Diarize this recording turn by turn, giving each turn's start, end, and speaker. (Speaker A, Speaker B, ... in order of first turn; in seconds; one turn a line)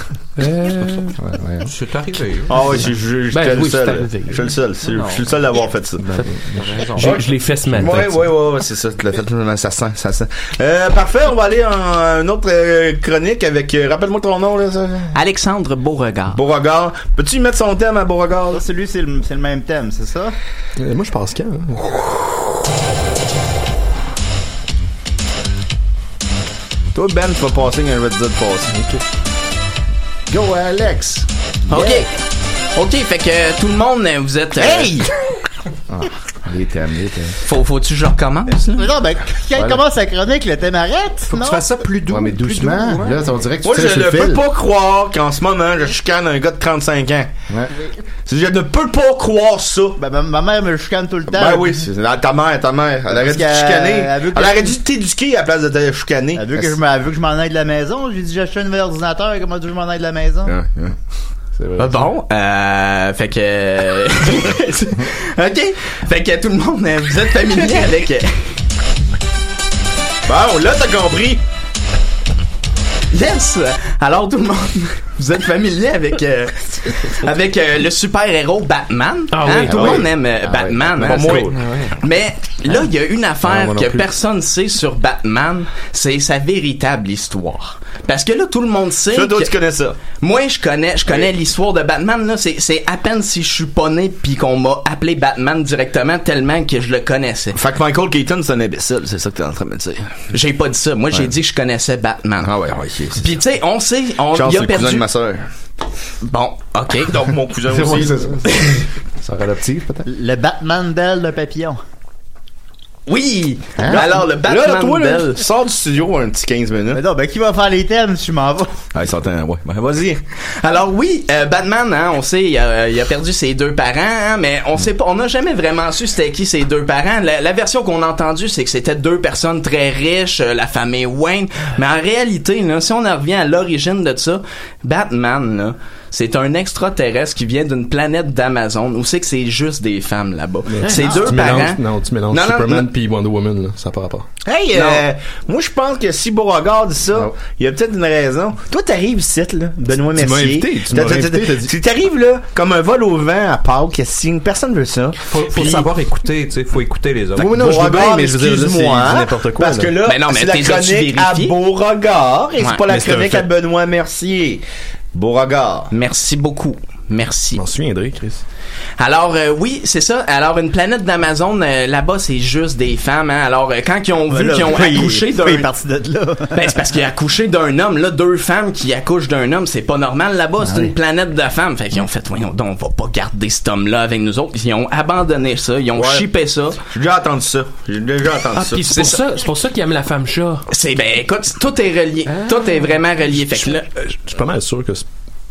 Speaker A: 0.4-1.2
Speaker B: 1.2-1.7
Speaker C: 1.6-2.5
Speaker D: 2.5-6.0
Speaker A: 3.3-4.5
Speaker C: 4.9-5.2
Speaker B: 6.0-6.8
Speaker C: 6.6-7.2
Speaker A: 7.0-8.3
Speaker D: 7.0-15.1
Speaker E: 15.1-16.4
Speaker D: 16.3-18.6
Speaker F: 18.5-20.3
Speaker G: 20.8-21.8
Speaker D: 26.9-28.8
Speaker B: 30.3-31.3
Speaker E: 31.7-32.1
Speaker E: 32.7-35.0
Speaker D: 34.6-35.1
Speaker B: 35.9-37.4
Speaker E: 37.4-38.9
Speaker F: 38.8-41.7
Speaker B: 39.5-39.8
Speaker C: 41.3-43.3
Speaker B: 42.0-44.4
Speaker D: 43.6-47.3
Speaker D: 48.2-50.0
Speaker F: 50.0-51.9
Speaker D: 51.3-56.8
Speaker F: 53.1-54.8
Speaker F: 56.3-60.5
Speaker D: 60.5-60.9
Speaker B: 61.6-62.1
Speaker E: 61.8-68.5
Speaker D: 70.3-71.4
Speaker E: 73.1-89.5
Speaker A: 79.3-80.0
Speaker B: 79.7-81.5
Speaker D: 79.7-80.1
Speaker D: 81.0-81.5
Speaker C: 81.5-81.9
Speaker B: 83.4-84.1
Speaker D: 89.1-90.0
Speaker E: 90.1-97.6
Speaker D: 97.5-100.2
Speaker E: 100.3-102.5
Speaker D: 102.4-103.4
Speaker E: 103.2-105.1
Speaker D: 104.3-105.4
Speaker E: 106.2-107.4
Speaker D: 107.0-108.5
Speaker B: 107.7-110.1
Speaker F: 110.0-111.8
Speaker E: 113.1-115.4
Speaker B: 113.8-114.0
Speaker D: 113.9-117.0
Speaker F: 116.9-118.7
Speaker D: 118.9-120.2
Speaker E: 120.6-142.9
Speaker G: 140.7-144.3
Speaker F: 141.0-141.5
Speaker D: 144.4-155.9
Speaker E: 144.7-145.1
Speaker G: 150.1-151.7
Speaker C: 155.4-157.5
Speaker G: 157.4-160.0
Speaker D: 157.4-164.6
Speaker E: 160.0-161.6
Speaker E: 162.6-162.8
Speaker G: 162.8-163.5
Speaker D: 165.1-165.9
Speaker E: 165.9-167.6
Speaker G: 167.5-168.4
Speaker E: 169.0-175.7
Speaker F: 174.3-176.8
Speaker E: 176.5-186.8
Speaker B: 180.6-180.9
Speaker D: 185.9-186.3
Speaker D: 186.9-189.0
Speaker A: 188.5-190.6
Speaker E: 190.7-193.8
Speaker G: 193.4-195.1